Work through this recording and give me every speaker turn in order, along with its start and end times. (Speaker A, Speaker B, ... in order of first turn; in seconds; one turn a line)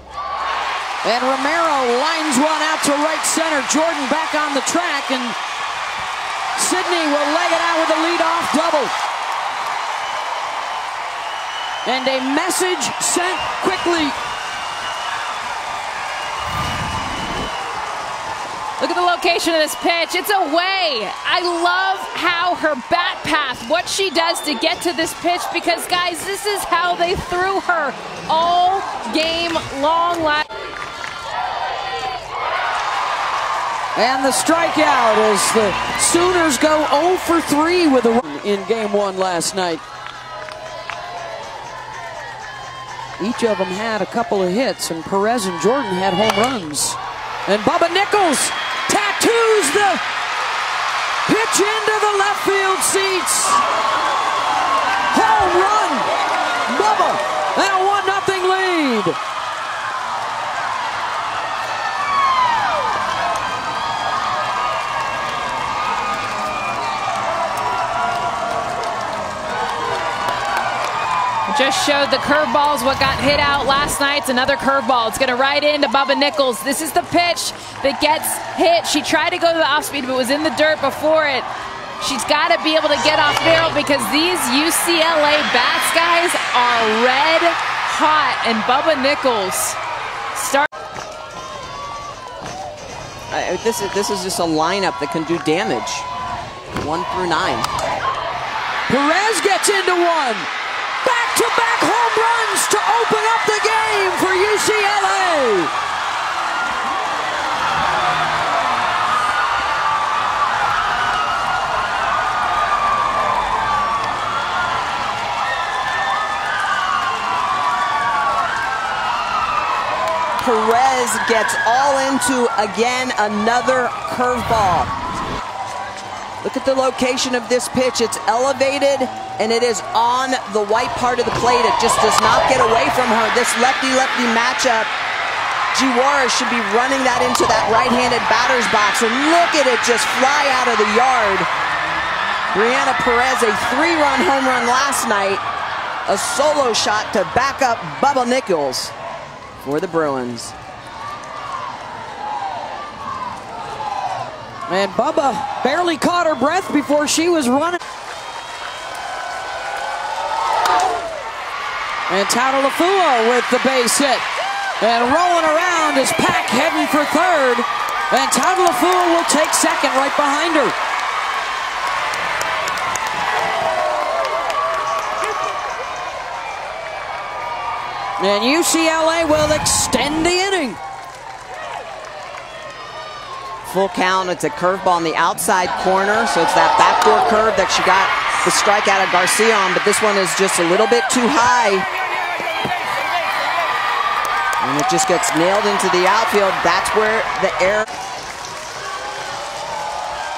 Speaker A: 1.0-5.4
Speaker A: 6.5-8.9
Speaker A: 11.8-14.2
Speaker B: 18.8-30.5
Speaker A: 34.0-39.8
Speaker A: 43.2-50.0
Speaker A: 51.3-53.6
Speaker A: 55.1-56.1
Speaker A: 56.7-59.2
Speaker B: 71.5-81.5
Speaker B: 82.0-89.8
Speaker B: 90.3-90.7
Speaker C: 93.3-96.1
Speaker C: 96.8-97.7
Speaker A: 98.9-100.5
Speaker A: 101.0-105.7
Speaker C: 120.4-124.9
Speaker C: 126.4-134.9
Speaker C: 135.7-141.5
Speaker C: 142.5-145.4
Speaker C: 146.1-148.9
Speaker C: 149.6-150.5
Speaker A: 154.7-157.8
Speaker A: 162.1-164.2
Speaker A: 164.8-170.7
Speaker A: 178.2-180.8
Speaker C: 183.7-191.9
Speaker C: 194.6-197.9